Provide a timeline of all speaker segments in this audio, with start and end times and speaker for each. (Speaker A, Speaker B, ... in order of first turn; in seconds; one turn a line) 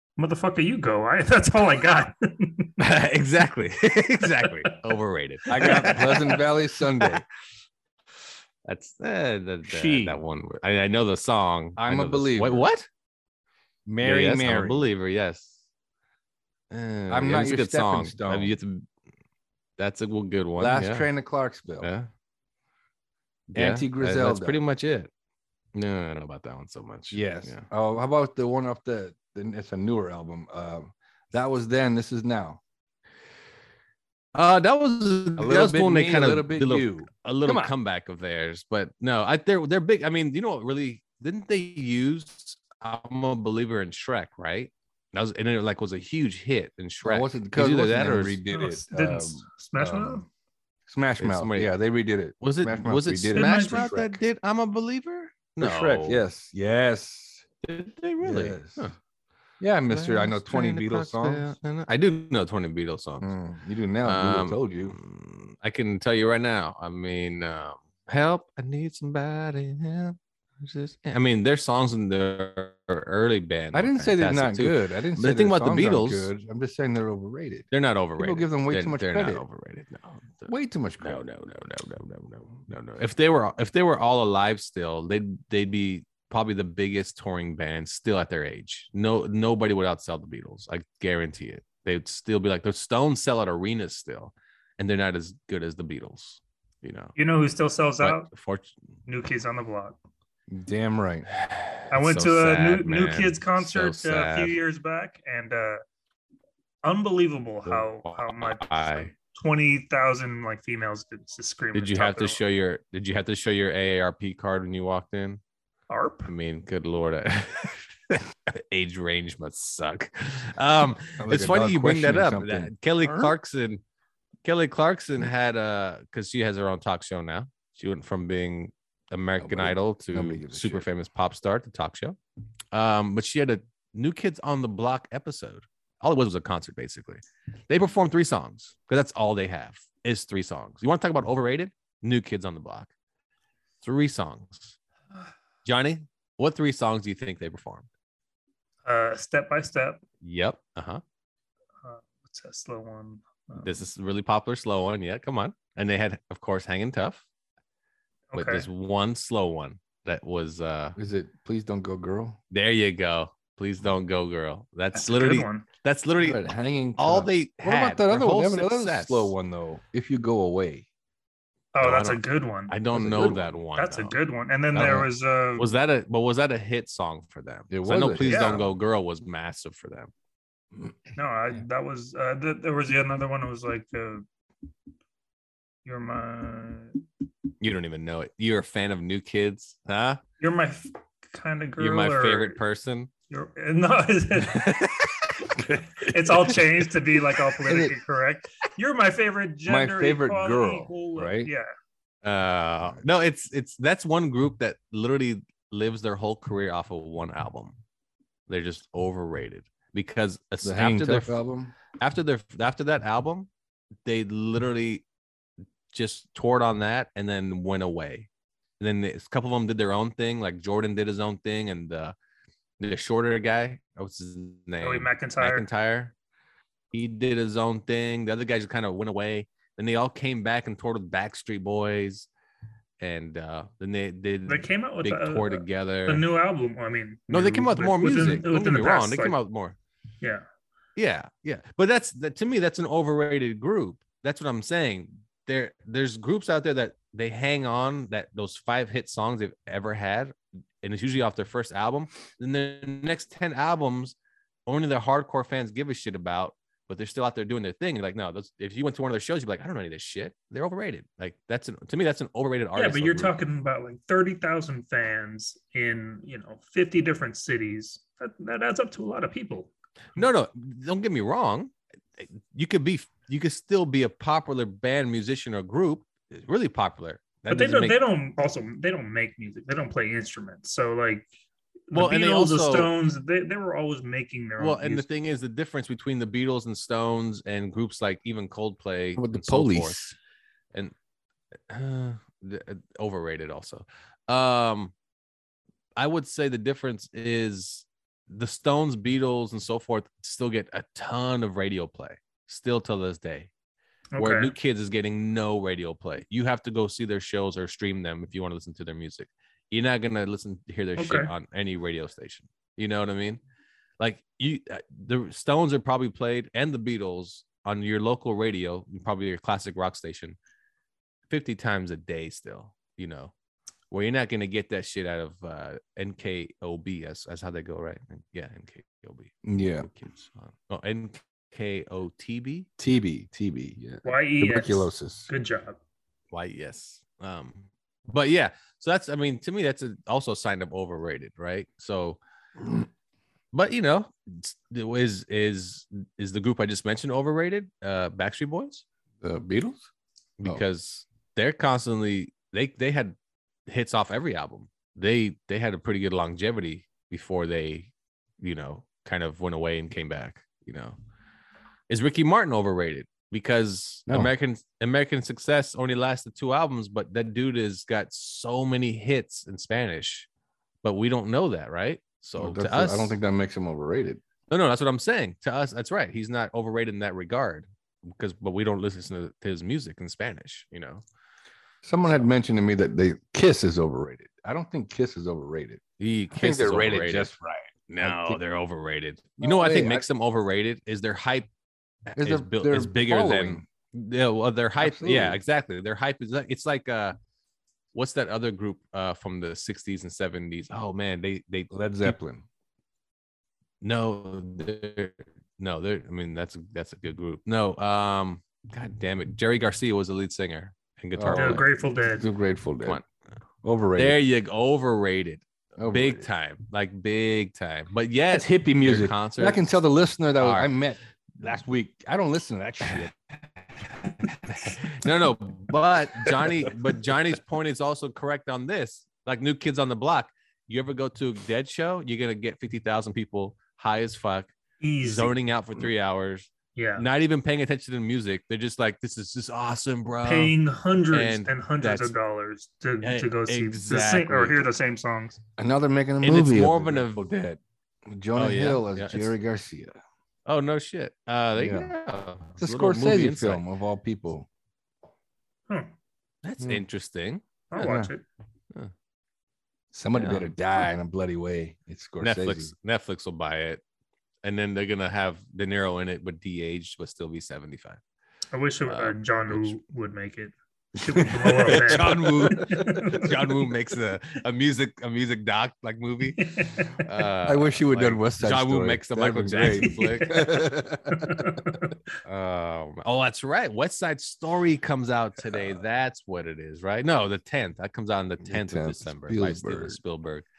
Speaker A: 0.2-2.7
Speaker B: 2.8-6.1
Speaker C: 5.5-7.2
Speaker A: 5.5-6.4
Speaker B: 8.7-12.9
Speaker C: 9.7-10.2
Speaker C: 11.8-12.7
Speaker C: 13.9-14.8
Speaker B: 14.0-15.6
Speaker B: 16.7-18.9
Speaker C: 17.1-18.5
Speaker B: 19.8-21.1
Speaker C: 20.6-21.9
Speaker B: 21.8-22.1
Speaker B: 23.5-25.1
Speaker C: 23.5-24.6
Speaker B: 25.7-27.7
Speaker C: 27.1-32.6
Speaker B: 34.4-48.4
Speaker C: 35.4-37.7
Speaker C: 47.0-50.3
Speaker A: 48.5-50.3
Speaker C: 50.9-54.2
Speaker B: 51.2-51.7
Speaker B: 52.4-56.2
Speaker A: 53.3-54.0
Speaker C: 55.6-57.5
Speaker B: 57.6-59.0
Speaker C: 58.2-58.9
Speaker C: 59.6-61.5
Speaker B: 59.9-63.3
Speaker C: 63.2-65.0
Speaker B: 64.0-76.3
Speaker C: 73.7-79.4
Speaker B: 77.7-97.1
Speaker C: 80.5-81.2
Speaker A: 97.2-98.3
Speaker B: 98.0-98.7
Speaker A: 99.1-100.0
Speaker C: 100.5-101.3
Speaker B: 101.4-104.6
Speaker A: 101.9-105.8
Speaker A: 106.8-112.4
Speaker B: 107.7-109.1
Speaker B: 111.7-115.4
Speaker A: 115.9-116.3
Speaker B: 116.3-123.8
Speaker C: 121.2-123.3
Speaker B: 124.5-132.2
Speaker C: 129.4-130.9
Speaker B: 132.7-142.9
Speaker B: 143.8-144.8
Speaker B: 145.7-147.9
Speaker A: 148.8-150.0
Speaker B: 150.2-151.0
Speaker A: 151.8-153.8
Speaker B: 153.6-157.2
Speaker A: 158.3-158.7
Speaker B: 158.3-161.0
Speaker C: 161.0-162.4
Speaker B: 162.5-169.3
Speaker A: 164.9-165.7
Speaker C: 166.2-170.8
Speaker A: 171.7-172.7
Speaker B: 171.8-174.2
Speaker C: 172.9-173.5
Speaker A: 173.8-175.7
Speaker B: 174.7-180.1
Speaker C: 174.8-175.1
Speaker C: 177.7-178.6
Speaker A: 178.2-178.7
Speaker A: 181.2-184.2
Speaker A: 185.8-187.0
Speaker B: 187.6-190.2
Speaker A: 190.4-192.6
Speaker B: 191.8-193.1
Speaker A: 193.3-194.8
Speaker B: 194.5-194.9
Speaker A: 196.0-201.7
Speaker C: 197.7-198.0
Speaker C: 199.7-201.5
Speaker B: 202.2-207.8
Speaker B: 208.5-211.3
Speaker C: 210.6-211.8
Speaker B: 212.0-213.5
Speaker B: 214.1-215.1
Speaker B: 215.9-218.3
Speaker B: 218.8-222.2
Speaker B: 222.8-226.1
Speaker A: 224.8-225.7
Speaker B: 226.9-232.3
Speaker B: 233.0-236.2
Speaker A: 234.5-239.4
Speaker B: 237.3-239.8
Speaker B: 241.0-254.2
Speaker B: 254.7-263.3
Speaker A: 262.8-270.2
Speaker B: 270.2-278.0
Speaker A: 277.5-281.3
Speaker A: 281.9-285.1
Speaker B: 281.9-282.9
Speaker B: 284.6-290.1
Speaker C: 289.2-290.2
Speaker B: 291.7-294.9
Speaker B: 296.0-303.5
Speaker A: 304.1-304.5
Speaker B: 304.2-313.4
Speaker A: 311.0-311.3
Speaker B: 314.0-320.4
Speaker B: 321.3-323.3
Speaker B: 323.9-332.7
Speaker C: 329.4-329.9
Speaker C: 332.8-335.3
Speaker A: 334.1-335.8
Speaker B: 336.3-342.2
Speaker B: 343.5-348.9
Speaker C: 349.2-349.9
Speaker B: 350.4-353.1
Speaker B: 353.7-357.9
Speaker B: 358.4-361.0
Speaker B: 361.9-370.3
Speaker B: 370.8-373.2
Speaker C: 372.4-374.2
Speaker B: 374.5-381.0
Speaker C: 381.8-385.8
Speaker B: 386.0-387.3
Speaker C: 386.3-388.4
Speaker B: 387.9-391.5
Speaker C: 389.4-390.1
Speaker B: 392.1-397.2
Speaker C: 392.2-393.7
Speaker C: 394.8-395.4
Speaker B: 397.9-402.2
Speaker C: 401.7-402.4
Speaker B: 403.8-411.6
Speaker C: 411.1-413.0
Speaker A: 411.3-412.3
Speaker C: 413.6-414.2
Speaker B: 414.0-419.6
Speaker C: 415.8-416.3
Speaker C: 418.3-423.1
Speaker B: 420.4-420.7
Speaker B: 424.1-434.5
Speaker C: 426.3-426.7
Speaker A: 434.8-435.3
Speaker B: 435.0-440.6
Speaker A: 436.8-437.1
Speaker A: 440.2-445.4
Speaker B: 441.1-442.1
Speaker B: 443.0-444.7
Speaker C: 445.6-449.9
Speaker B: 446.2-447.3
Speaker B: 448.4-449.3
Speaker B: 450.5-453.6
Speaker C: 451.6-451.9
Speaker C: 452.6-454.5
Speaker B: 456.4-457.4
Speaker A: 457.7-458.2
Speaker C: 457.8-458.1
Speaker C: 459.9-462.7
Speaker B: 460.1-460.5
Speaker B: 462.2-463.8
Speaker B: 464.4-468.0
Speaker A: 468.5-473.6
Speaker B: 468.9-469.8
Speaker B: 471.4-476.4
Speaker C: 471.5-473.2
Speaker A: 476.4-477.0
Speaker B: 477.0-480.5
Speaker C: 477.4-481.5
Speaker A: 479.6-482.0
Speaker B: 482.3-490.5
Speaker C: 488.4-490.0